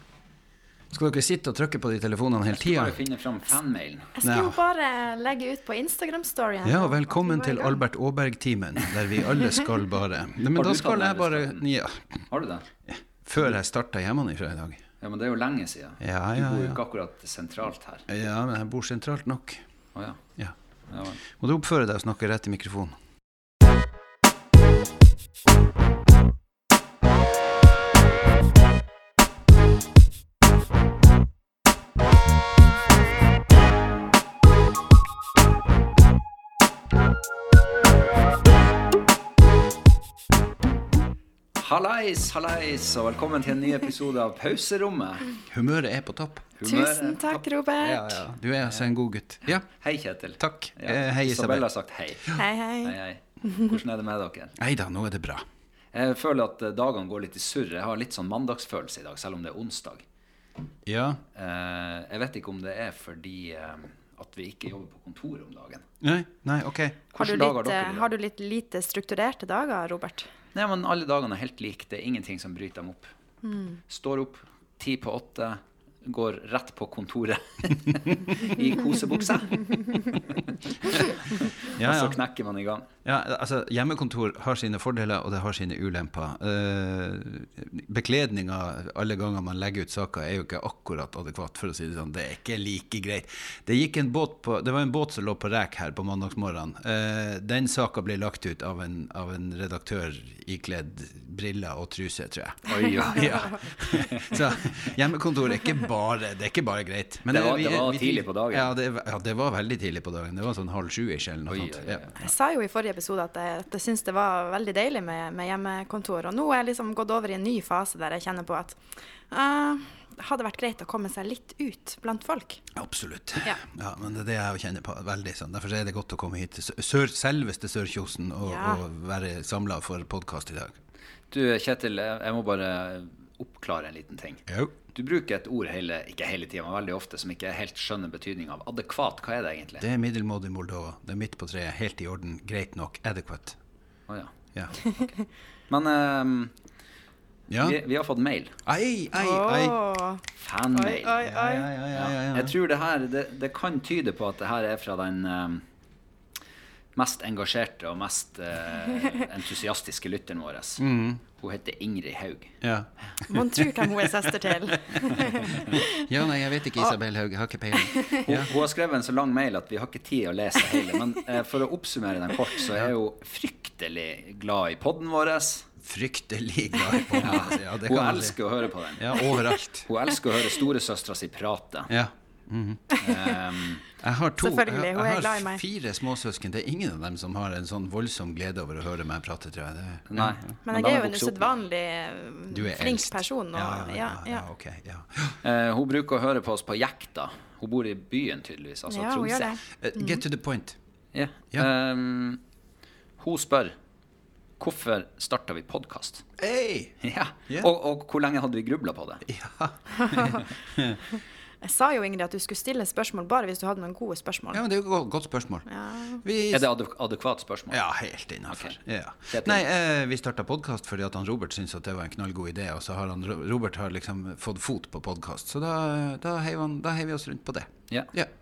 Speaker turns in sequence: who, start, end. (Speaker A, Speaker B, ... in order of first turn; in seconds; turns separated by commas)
Speaker A: 0.9-3.0, Speaker B: 2.5-4.1, Speaker C: 4.2-7.8, Speaker A: 4.2-4.6, Speaker A: 6.6-12.2, Speaker B: 10.5-11.6, Speaker B: 12.3-12.7, Speaker A: 12.9-14.8, Speaker B: 15.0-18.0, Speaker A: 16.0-16.8, Speaker A: 18.1-19.6, Speaker B: 19.9-20.2, Speaker B: 20.9-21.2, Speaker A: 21.2-23.0, Speaker B: 41.5-45.3, Speaker A: 45.5-46.5, Speaker B: 46.6-47.4, Speaker C: 46.6-48.2, Speaker A: 47.8-49.6, Speaker B: 49.5-54.5, Speaker A: 50.4-51.7, Speaker C: 52.4-53.7, Speaker A: 54.5-55.4, Speaker B: 55.9-60.0, Speaker A: 60.9-61.2, Speaker B: 61.3-65.8, Speaker A: 66.0-67.0, Speaker B: 67.1-68.1, Speaker C: 67.2-70.3, Speaker B: 70.5-73.1, Speaker C: 73.4-73.8, Speaker B: 73.9-82.9, Speaker A: 77.9-78.5, Speaker A: 80.8-81.1, Speaker A: 81.7-82.2, Speaker A: 83.0-112.3, Speaker B: 102.7-104.4, Speaker B: 107.3-108.7, Speaker B: 111.5-112.1, Speaker C: 112.2-122.6, Speaker A: 122.7-130.8, Speaker C: 128.4-128.8, Speaker B: 131.3-139.8, Speaker A: 134.5-134.7, Speaker A: 139.8-143.6, Speaker B: 144.1-144.3, Speaker B: 145.7-146.5, Speaker A: 147.5-147.8, Speaker B: 147.6-148.5, Speaker A: 148.7-149.8, Speaker C: 149.2-151.7, Speaker B: 150.4-151.2, Speaker A: 151.2-152.5, Speaker B: 151.9-155.7, Speaker B: 156.9-160.8, Speaker A: 160.8-161.2, Speaker B: 161.3-162.6, Speaker A: 162.6-168.5, Speaker C: 163.3-166.0, Speaker C: 167.8-168.3, Speaker B: 168.2-175.7, Speaker A: 175.8-178.4, Speaker B: 177.2-181.9, Speaker A: 178.9-179.9, Speaker A: 181.9-182.9, Speaker C: 183.0-183.4, Speaker B: 183.0-183.8, Speaker A: 184.0-190.5, Speaker C: 184.4-185.6, Speaker B: 190.1-191.6, Speaker C: 190.6-194.4, Speaker A: 192.5-195.4, Speaker B: 195.4-199.6, Speaker C: 198.9-200.2, Speaker A: 199.8-200.8, Speaker B: 201.1-202.4, Speaker B: 203.2-203.7, Speaker B: 204.6-206.2, Speaker A: 206.4-207.7, Speaker B: 207.0-209.2, Speaker A: 209.2-211.0, Speaker C: 209.9-210.4, Speaker C: 211.2-214.6, Speaker A: 214.5-215.7, Speaker C: 215.7-216.2, Speaker A: 216.2-216.7, Speaker B: 216.5-217.8, Speaker A: 217.7-228.3, Speaker B: 218.5-218.8, Speaker B: 219.3-219.6